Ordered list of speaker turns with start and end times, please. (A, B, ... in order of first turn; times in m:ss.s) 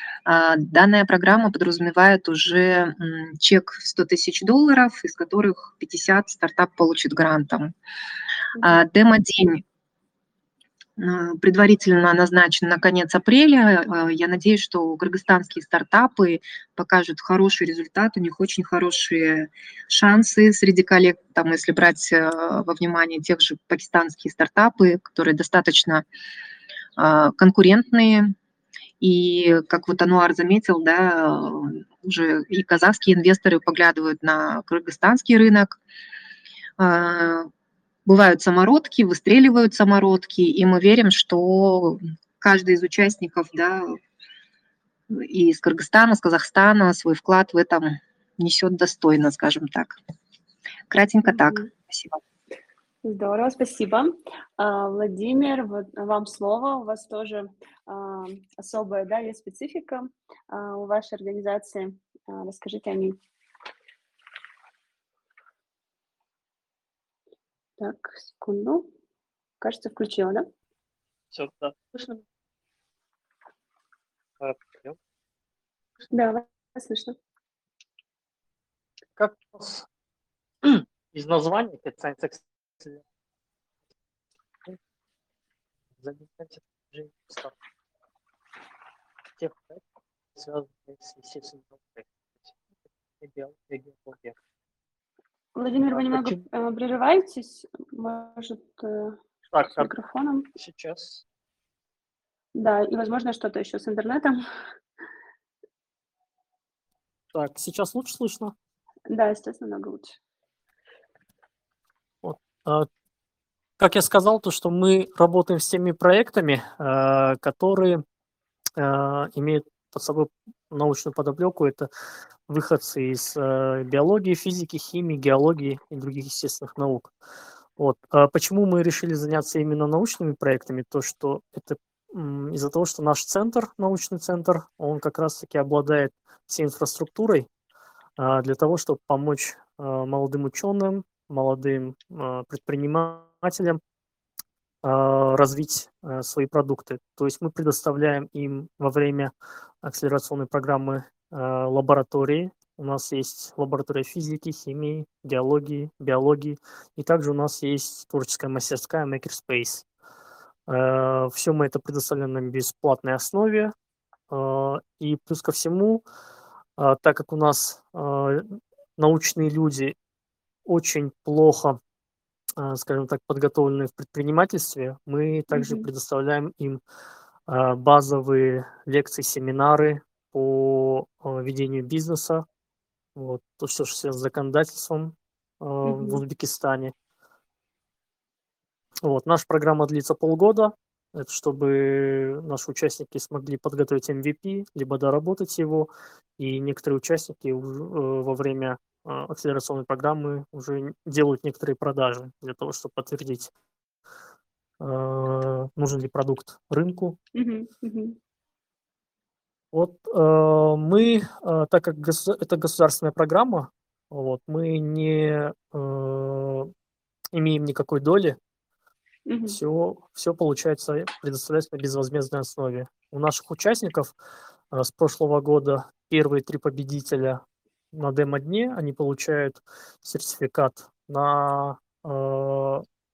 0:00.2-0:07.7 A
0:08.6-0:08.8 B
0:08.6-0:09.6 A
0:11.0-0:26.0 A
0:27.0-0:28.4 A
0:29.0-0:35.8 A
0:36.8-0:37.5 A
0:38.0-0:44.0 A
0:45.1-0:50.0 A
0:50.9-0:52.2 A
0:51.3-0:51.7 B
0:53.0-1:03.2 B
1:07.8-1:08.9 B
1:09.6-1:10.5 B
1:11.4-1:11.8 C
1:14.5-1:14.9 C
1:16.1-1:17.2 B
1:19.2-1:19.8 C
1:21.1-1:23.0 C
1:26.0-1:27.5 C
1:30.4-1:31.8 C
1:33.4-1:34.2 C
1:35.5-1:39.2 B
1:39.5-1:39.8 C
1:39.8-1:40.5 B
1:42.5-1:44.4 B
1:47.3-1:48.6 C
1:49.1-1:50.2 B
1:52.2-1:52.9 C
1:53.8-1:58.0 C
1:58.8-2:01.9 C
2:02.5-2:07.1 C
2:07.8-2:17.5 C
2:18.2-2:23.8 C
2:24.8-2:39.8 C
2:40.7-2:43.7 C
2:44.3-2:46.0 C
2:46.8-2:50.0 C
2:50.7-2:51.8 C
2:52.6-2:56.8 C
2:55.5-2:55.9 B
2:57.5-3:02.4 C
3:03.2-3:06.9 C
3:05.8-3:06.2 B
3:09.0-3:23.5 C
3:24.8-3:27.2 C
3:27.4-3:28.2 B
3:29.7-3:36.7 C
3:37.3-3:38.4 C
3:39.3-3:39.6 B
3:39.5-3:44.1 C
3:44.7-3:47.4 C
3:47.9-3:52.8 C